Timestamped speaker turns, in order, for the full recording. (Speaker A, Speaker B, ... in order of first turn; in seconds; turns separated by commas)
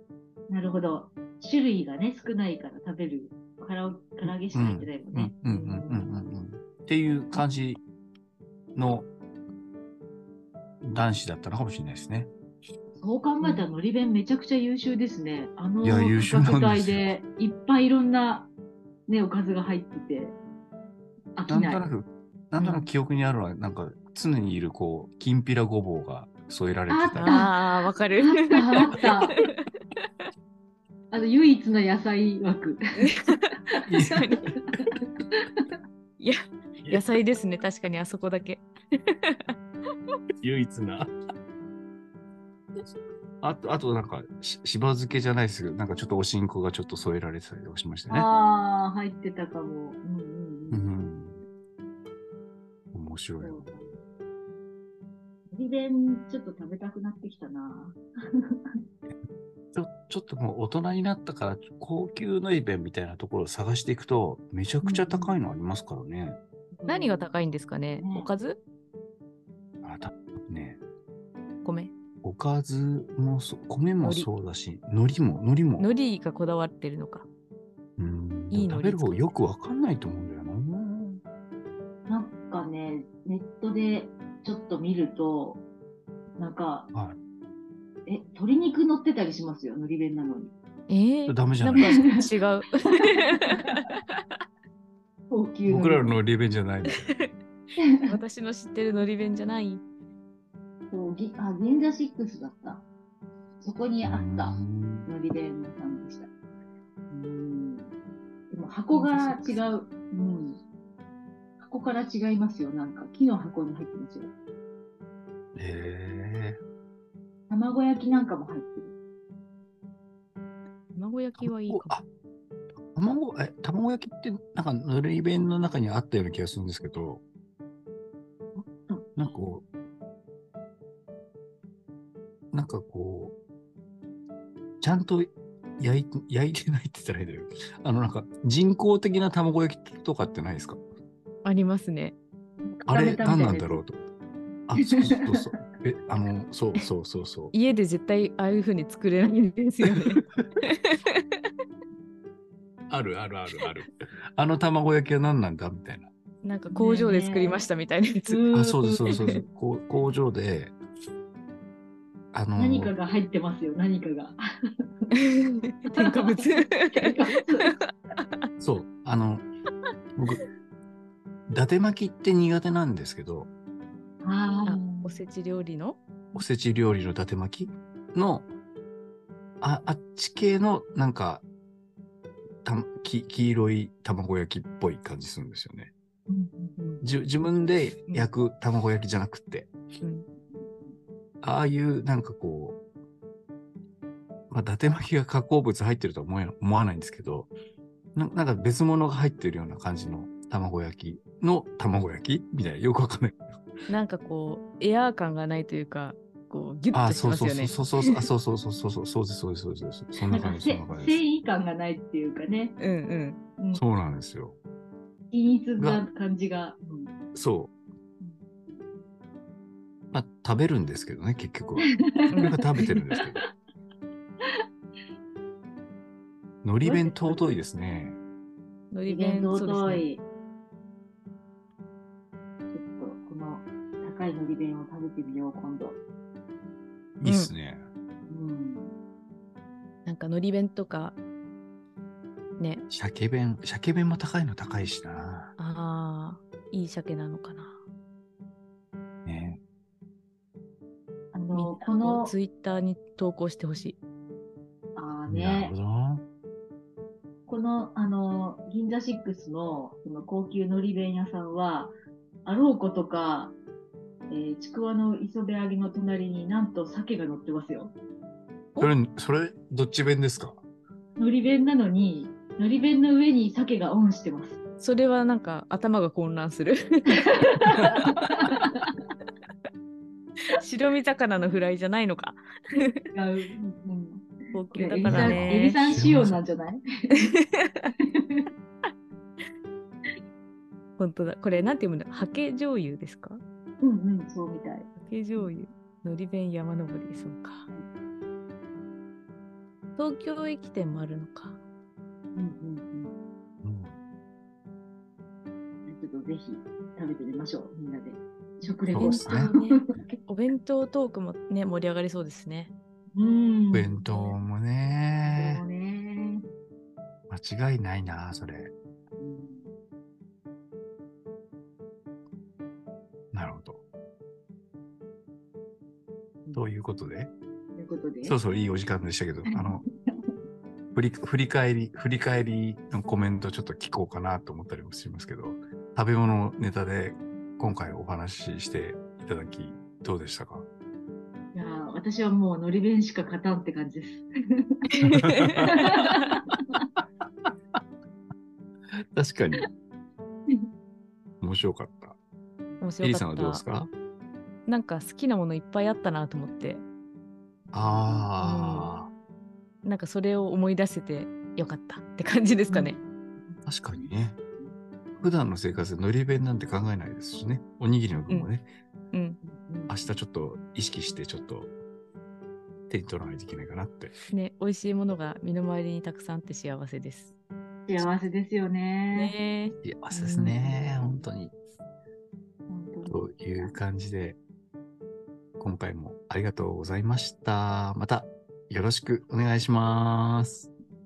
Speaker A: 0.5-6.1, Speaker B: 4.5-7.8, Speaker B: 8.7-9.1, Speaker B: 10.8-12.3, Speaker A: 13.0-18.5, Speaker B: 15.8-17.1, Speaker A: 19.1-20.4, Speaker A: 21.4-21.8, Speaker B: 21.5-27.4, Speaker C: 22.6-22.9, Speaker A: 26.9-27.6, Speaker C: 27.2-29.6, Speaker A: 28.2-29.4, Speaker A: 31.1-32.8, Speaker C: 33.0-34.5, Speaker A: 33.8-35.6, Speaker B: 33.9-34.3, Speaker C: 36.2-39.5, Speaker B: 40.4-41.1, Speaker B: 43.4-48.3, Speaker A: 48.1-50.8, Speaker B: 50.7-51.4, Speaker B: 52.9-53.8, Speaker A: 53.4-53.9, Speaker A: 55.5-58.8, Speaker B: 59.7-66.4, Speaker A: 64.8-65.4, Speaker A: 66.7-67.3, Speaker C: 66.9-68.6, Speaker A: 68.0-68.3, Speaker B: 69.8-70.8, Speaker C: 71.6-71.9, Speaker B: 72.2-75.9, Speaker C: 74.0-74.3, Speaker C: 75.8-77.2, Speaker B: 78.0-81.2, Speaker C: 78.5-79.2, Speaker A: 82.1-85.6, Speaker A: 86.4-86.9, Speaker A: 88.0-90.5, Speaker C: 90.9-94.2, Speaker B: 91.3-92.1, Speaker A: 91.8-92.2, Speaker A: 93.0-93.8, Speaker A: 95.3-96.2, Speaker B: 95.7-97.1, Speaker A: 97.8-98.2, Speaker C: 98.1-99.8, Speaker A: 100.9-102.8, Speaker A: 103.6-106.3, Speaker B: 104.0-105.1, Speaker A: 107.1-107.9, Speaker A: 108.5-110.6, Speaker C: 108.9-109.7, Speaker A: 111.6-114.3, Speaker B: 115.5-116.6, Speaker A: 117.5-118.9, Speaker C: 120.9-122.0, Speaker B: 121.4-122.0, Speaker B: 122.9-127.2, Speaker A: 128.6-129.2, Speaker B: 129.2-129.6, Speaker B: 132.5-133.3, Speaker B: 134.8-140.8, Speaker C: 141.4-142.2, Speaker A: 142.7-143.8, Speaker B: 142.9-144.0, Speaker B: 144.7-147.5, Speaker A: 144.8-145.5, Speaker C: 147.5-151.2, Speaker B: 149.9-150.4, Speaker B: 152.9-156.1, Speaker C: 156.4-158.4, Speaker A: 156.7-157.6, Speaker A: 158.2-159.2, Speaker B: 158.5-160.7, Speaker C: 159.1-159.4, Speaker B: 162.3-162.9, Speaker A: 162.6-164.4, Speaker C: 165.1-167.7, Speaker A: 165.9-167.8, Speaker B: 168.6-169.4, Speaker B: 170.2-170.4, Speaker B: 171.5-173.5, Speaker A: 174.2-175.2, Speaker C: 174.7-176.0, Speaker B: 176.3-178.5, Speaker B: 179.6-181.4, Speaker B: 182.6-185.9, Speaker A: 186.3-186.8, Speaker B: 187.0-189.7, Speaker A: 190.5-191.0, Speaker B: 191.4-192.8, Speaker B: 194.5-197.5, Speaker B: 198.1-203.6, Speaker C: 203.9-207.9, Speaker B: 206.9-211.2, Speaker A: 210.3-212.8, Speaker C: 212.8-213.4, Speaker B: 213.7-214.6, Speaker A: 215.3-217.1, Speaker B: 215.8-216.0, Speaker B: 217.3-217.7, Speaker A: 218.2-218.9, Speaker B: 220.1-223.4, Speaker A: 221.8-223.5, Speaker C: 222.3-222.6, Speaker B: 226.6-228.2, Speaker A: 226.8-227.4, Speaker C: 228.9-230.0, Speaker A: 229.1-230.2, Speaker A: 232.7-236.0, Speaker B: 237.2-237.8, Speaker C: 237.2-237.5, Speaker A: 238.3-238.9, Speaker C: 240.1-241.2, Speaker C: 242.6-242.8, Speaker B: 242.9-245.5, Speaker C: 245.6-247.8, Speaker B: 249.2-249.6, Speaker A: 251.3-252.3, Speaker C: 251.5-254.0, Speaker A: 254.9-255.7, Speaker B: 255.3-256.2, Speaker A: 257.5-261.9, Speaker A: 262.4-263.6, Speaker A: 264.3-267.9, Speaker B: 268.8-270.6, Speaker A: 271.2-274.6, Speaker C: 274.8-277.9, Speaker A: 277.1-278.9, Speaker C: 280.5-283.0, Speaker A: 283.1-287.2, Speaker C: 284.5-285.8, Speaker B: 285.1-286.4, Speaker C: 287.1-287.9, Speaker A: 288.0-288.4, Speaker C: 291.0-293.4, Speaker A: 293.8-295.5, Speaker C: 295.0-297.7, Speaker C: 299.9-301.6, Speaker A: 302.3-303.1, Speaker B: 303.6-303.9, Speaker A: 305.8-310.1, Speaker C: 308.7-312.7, Speaker B: 308.9-309.5, Speaker A: 313.1-314.4, Speaker B: 313.7-315.6, Speaker A: 315.3-316.4, Speaker B: 317.3-318.7, Speaker A: 319.2-319.7, Speaker B: 323.3-323.8, Speaker B: 326.5-327.3, Speaker A: 327.8-328.4, Speaker B: 328.2-329.8, Speaker A: 329.5-330.3, Speaker B: 330.9-340.6, Speaker A: 341.5-344.9, Speaker C: 344.9-346.4, Speaker B: 345.0-346.0, Speaker A: 345.7-346.8, Speaker B: 349.0-349.7, Speaker B: 351.4-352.2, Speaker C: 352.8-353.6, Speaker B: 353.0-353.9, Speaker C: 354.7-356.8, Speaker A: 357.7-358.3, Speaker B: 357.7-359.1, Speaker C: 358.4-358.9, Speaker C: 359.8-363.0, Speaker A: 362.7-364.7, Speaker B: 363.6-364.4, Speaker B: 365.2-368.6, Speaker C: 369.1-369.4, Speaker A: 369.4-370.0, Speaker B: 369.9-371.7, Speaker B: 372.9-374.1, Speaker C: 374.3-377.3, Speaker A: 377.9-379.4, Speaker C: 379.1-380.5, Speaker B: 379.8-381.5, Speaker A: 380.4-381.3, Speaker A: 382.7-383.7, Speaker B: 383.1-384.4, Speaker B: 385.6-390.7